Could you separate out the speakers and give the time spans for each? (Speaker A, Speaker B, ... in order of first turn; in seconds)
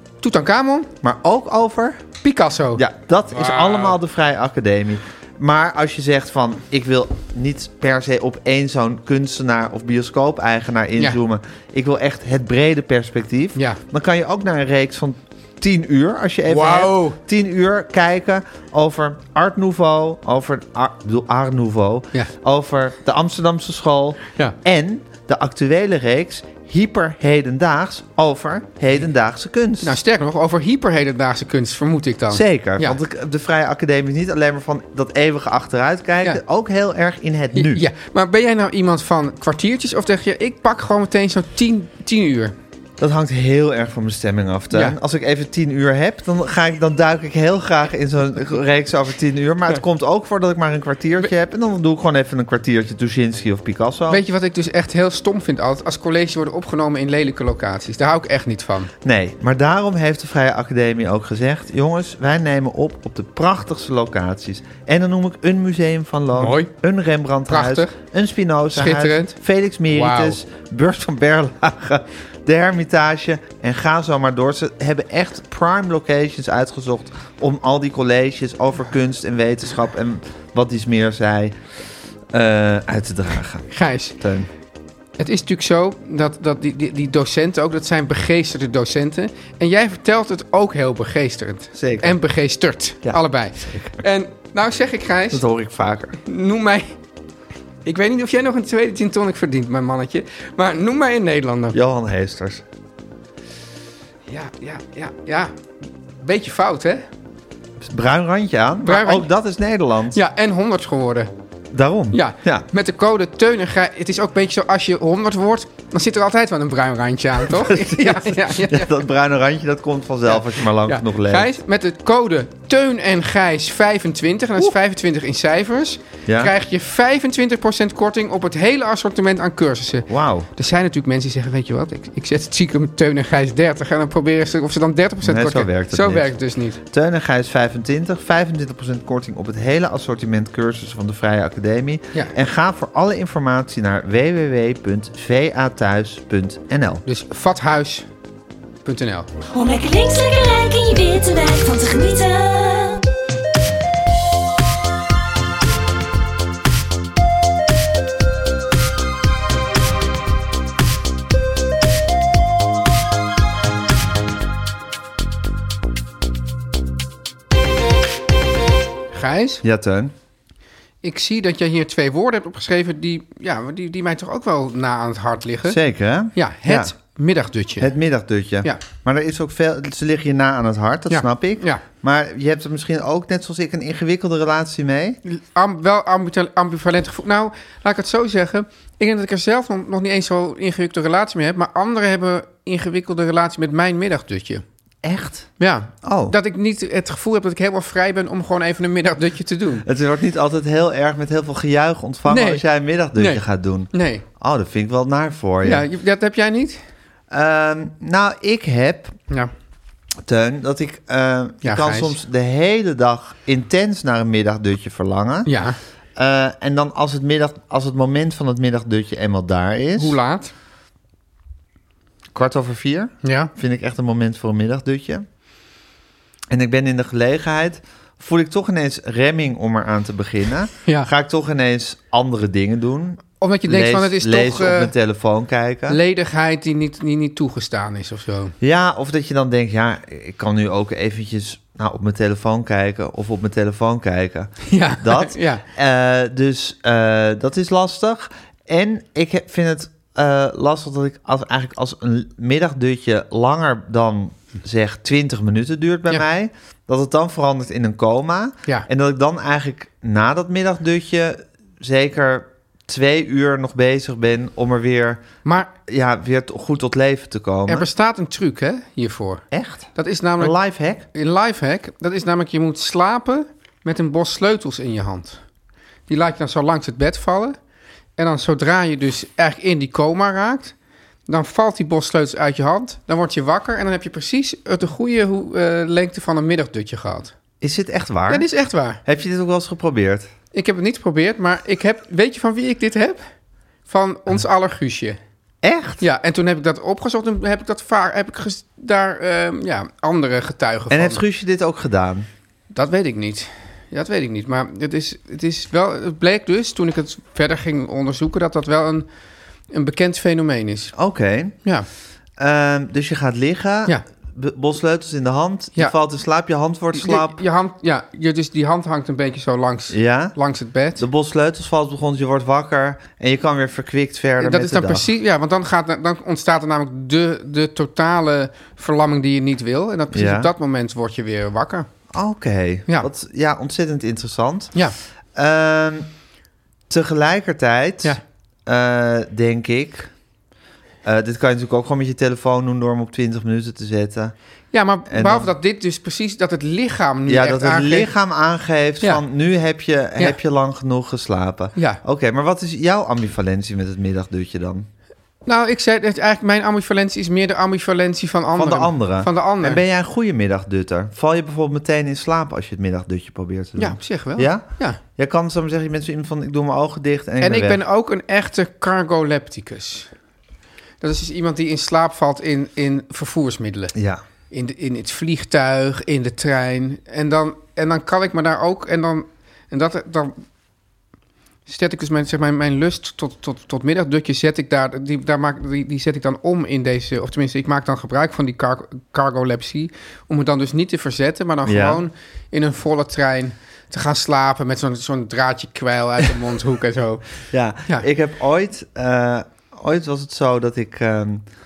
Speaker A: 0.2-0.9, 2.2-2.8, 3.4-4.0, 16.5-17.2, 29.8-33.0, 37.5-42.5, 44.7-45.0, 54.1-58.9, 66.4-66.7, 67.5-67.9, 68.7-69.3, 69.9-70.4, 83.7-84.2, 85.2-95.4, 96.2-97.0, 97.8-101.8, 104.3-105.5, 106.2-107.1, 108.8-109.3, 110.1-111.3, 112.1-118.9, 120.3-136.8, 147.1-148.1, 148.8-149.3, 169.1-169.6, 171.0-175.8, 176.3-177.9, 181.1-181.8, 185.2-194.6, 195.6-199.9, 202.3-202.6, 203.2-204.2, 205.6-206.8, 211.6-212.2, 215.5-215.8, 220.0-220.5, 223.2-223.5, 233.4-234.9, 235.9-238.5, 244.7-245.6, 265.4-265.7, 267.7-270.6, 271.1-275.4, 276.1-277.6, 278.2-280.8, 281.3-287.3, 288.3-289.0, 290.5-293.2, 293.9-295.2, 296.0-301.2, 302.7-309.1, 309.7-310.9, 316.9-321.1, 324.4-331.9, 344.7-348.1, 351.8-352.0, 355.5-359.8, 363.8-365.0, 367.4-370.1, 371.0-373.9, 374.5-380.4, 381.7-397.3
Speaker B: 1.0-2.0, 2.8-30.0, 32.3-37.9, 43.0-54.2, 59.0-81.6, 82.3-84.5, 91.7-92.2, 93.0-93.9, 95.3-96.2, 101.7-102.6, 107.8-110.2, 111.7-112.7, 117.5-121.5, 126.3-126.5, 130.1-130.5, 135.2-136.3, 136.8-147.0, 169.6-170.1, 175.7-176.9, 177.8-185.2, 195.0-195.5, 196.0-196.4, 199.8-205.9, 207.3-209.2, 210.3-215.5, 216.2-220.2, 222.3-225.2, 226.5-236.0, 238.6-265.2, 265.9-267.9, 269.5-269.9, 270.4-271.1, 287.6-288.5, 289.0-290.3, 295.6-296.0, 300.9-302.3, 310.9-311.6, 312.4-317.4, 319.9-320.4, 321.0-325.1, 330.1-330.5, 332.1-334.8, 335.4-336.1, 336.9-340.1, 341.0-344.3, 345.1-345.5, 347.3-354.9, 358.5-367.8, 373.9-374.2, 391.6-392.0, 397.5-401.4
Speaker C: 149.5-153.1